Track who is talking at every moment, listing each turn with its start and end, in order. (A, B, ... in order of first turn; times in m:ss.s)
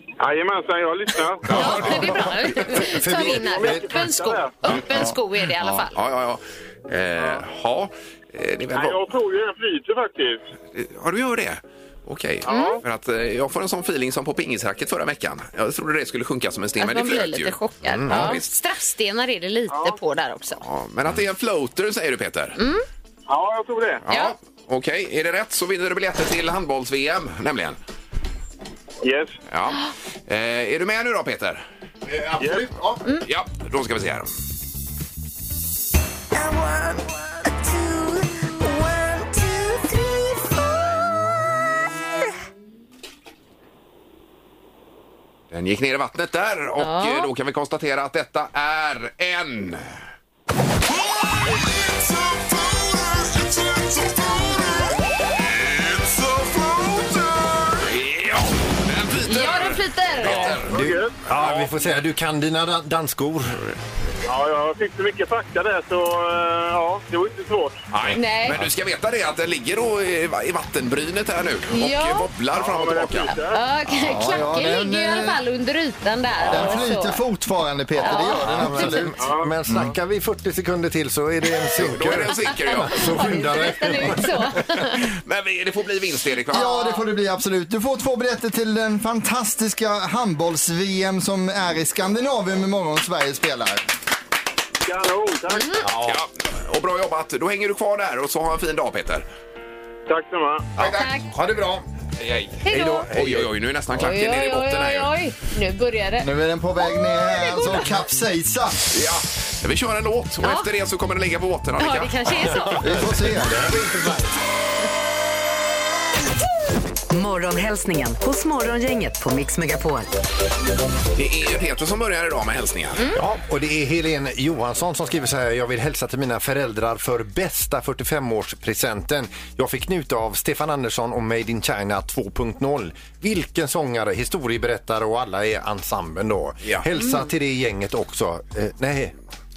0:00.2-0:02.0 A
0:01.5-0:06.0 B
0:01.5-0:02.0 C
0:01.5-0:04.4 D
0:03.2-0:04.6 A
0:05.9-0:09.1 C
0:08.7-0:10.4 A
0:10.7-0:18.5 C
0:12.5-0:12.8 B
0:16.8-0:20.6 B
0:17.9-0:18.4 D
0:19.7-0:20.0 A
0:20.6-0:22.6 C
0:22.6-0:22.8 B
0:23.3-0:24.0 A
0:24.0-0:27.8 C
0:29.0-0:29.4 A
0:29.5-0:31.6 C
0:32.0-0:33.0 D
0:32.4-0:32.7 A
0:33.2-0:34.3 C
0:45.5-0:49.9 C
0:46.8-0:47.3 B
0:55.6-0:56.2 C
0:57.8-1:00.8 C
0:59.2-1:00.6 B
1:00.4-1:03.6 D
1:00.7-1:01.2 A
1:01.4-1:01.6 C
1:04.3-1:07.8 A
1:07.9-1:13.4 C
1:08.1-1:08.6 B
1:11.7-1:12.3 B
1:12.5-1:13.6 A
1:13.3-1:17.2 B
1:13.9-1:15.4 E
1:16.5-1:19.9 E
1:16.5-1:16.8 D
1:18.0-1:19.0 B
1:18.0-1:24.7 D
1:19.2-1:19.6 A
1:21.8-1:23.2 C
1:22.5-1:25.0 B
1:24.9-1:26.8 C
1:26.5-1:27.0 B
1:26.5-1:33.8 E
1:34.8-1:35.8 A
1:35.5-1:35.9 B
1:35.8-1:36.2 D
1:36.1-1:39.2 C
1:40.1-1:40.7 A
1:40.8-1:41.1 C
1:40.8-1:41.8 D
1:40.8-1:41.3 B
1:42.2-1:45.1 C
1:42.6-1:43.1 B
1:42.7-1:43.5 D
1:44.0-1:46.3 B
1:46.2-1:48.8 E
1:46.8-1:47.9 B
1:48.9-1:52.5 C
1:51.8-1:52.9 B
1:52.6-1:54.4 D
1:52.8-1:53.6 E
1:57.1-2:00.1 F
2:01.1-2:03.2 C
2:03.1-2:19.2 D
2:17.0-2:17.2 B